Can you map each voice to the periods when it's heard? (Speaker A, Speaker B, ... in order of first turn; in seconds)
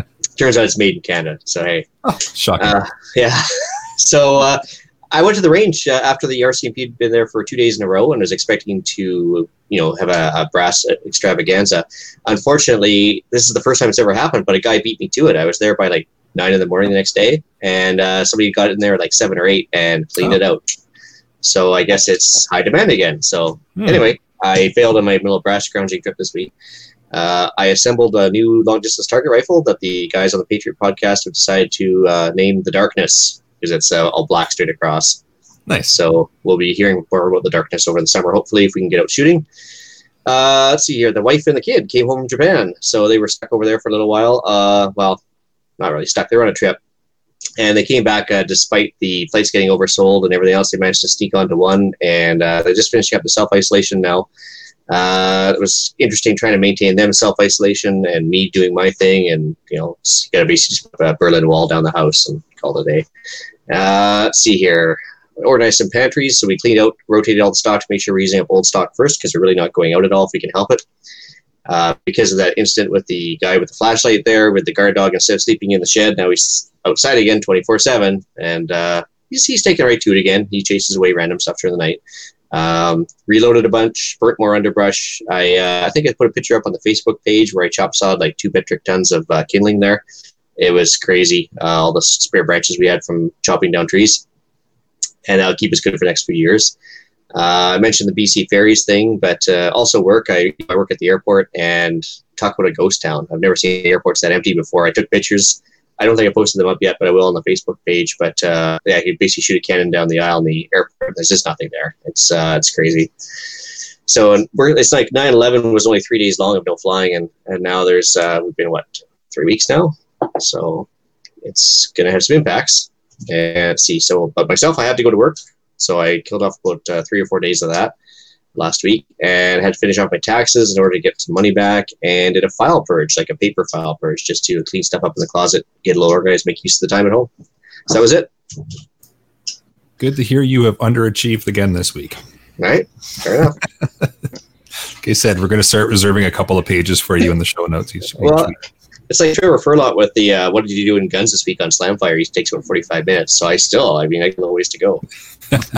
Speaker A: 0.3-1.9, 2.6-20.8, 21.4-26.5, 27.1-35.2, 35.9-39.5, 40.2-45.2, 45.8-46.8, 47.6-54.3, 54.9-63.1, 63.7-70.8, 71.7-82.0, 82.5-90.0, 90.6-94.2, 95.2-96.7, 97.3-113.1, 114.1-120.9, 121.4-127.9, 128.6-137.3, 137.9-138.3, 142.6-143.6, 148.2-148.5, 149.1-155.0
Speaker B: 2.0-2.8, 35.7-35.9, 140.0-142.2, 145.0-148.5